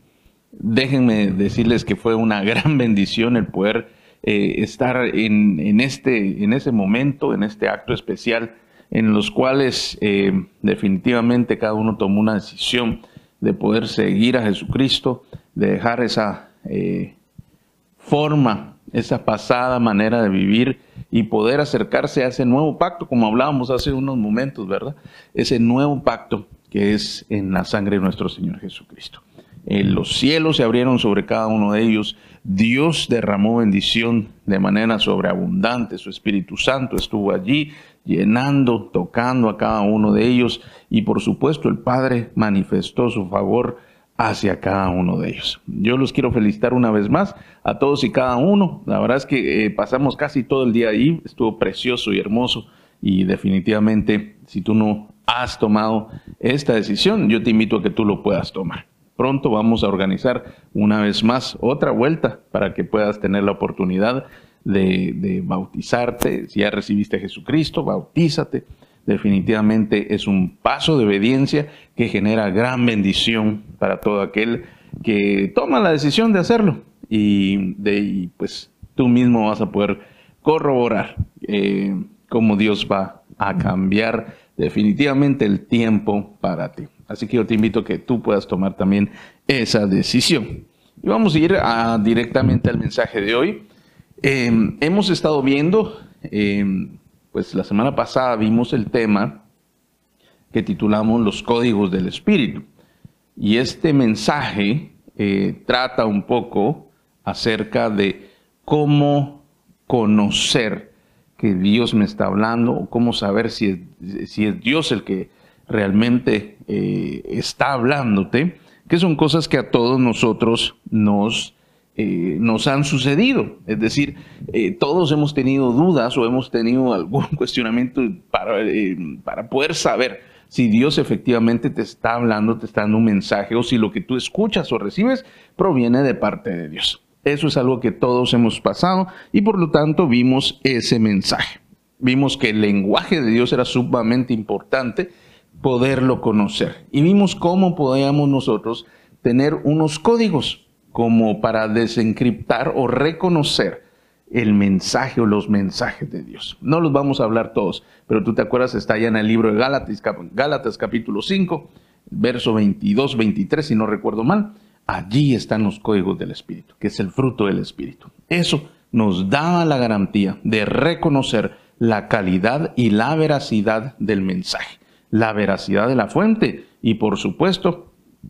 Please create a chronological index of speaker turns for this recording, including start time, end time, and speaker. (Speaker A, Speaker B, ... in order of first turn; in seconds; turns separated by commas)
Speaker A: 0.6-17.2, Speaker A: 18.0-93.7, Speaker A: 94.2-99.4, Speaker A: 100.5-102.7, Speaker A: 103.4-177.9